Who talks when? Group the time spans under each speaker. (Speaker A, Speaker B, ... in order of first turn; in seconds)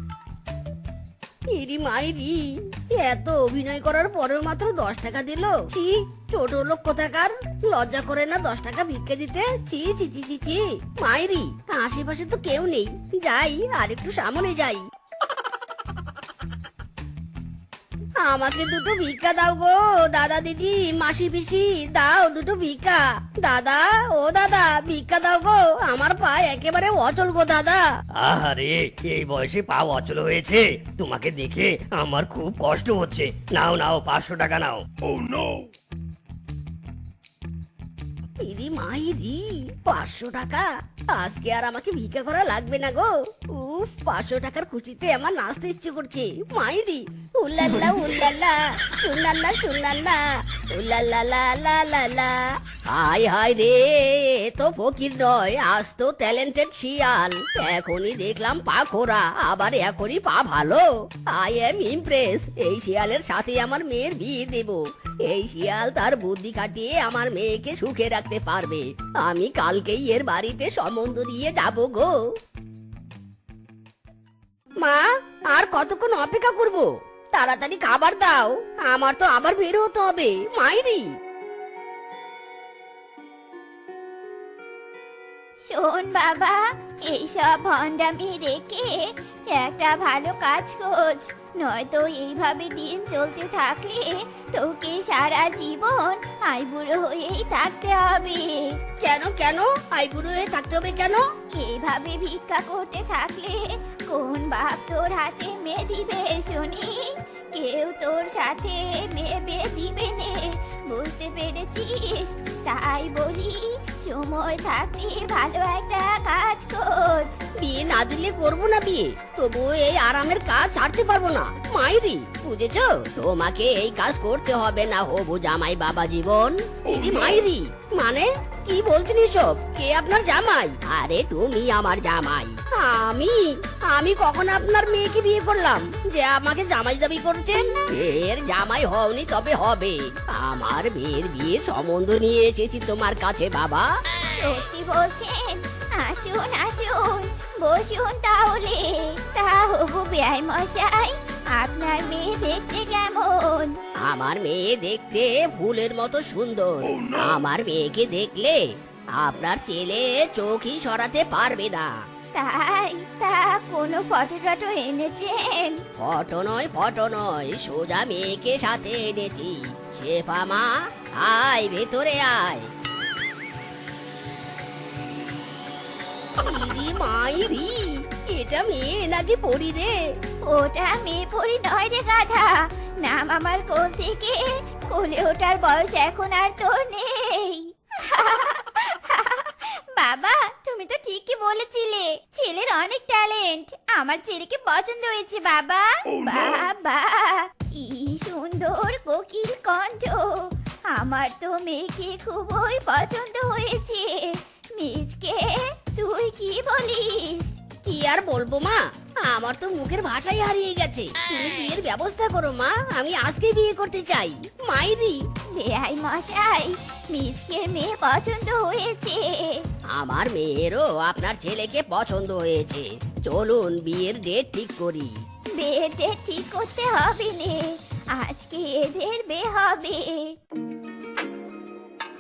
Speaker A: 1.5-2.4, 2.9-14.8, 18.2-27.8, 38.4-50.2, 50.7-72.1, 74.8-81.0, 99.0-101.2, 117.6-143.9, 154.0-158.6, 159.2-161.9, 166.0-170.7, 171.2-172.7, 176.4-179.9, 207.8-215.2, 219.9-225.1
Speaker B: 28.2-34.8
Speaker C: 85.7-98.7, 101.5-117.4, 144.4-153.8, 162.3-165.8, 180.4-207.6, 215.6-219.6, 225.6-227.6, 228.1-230.3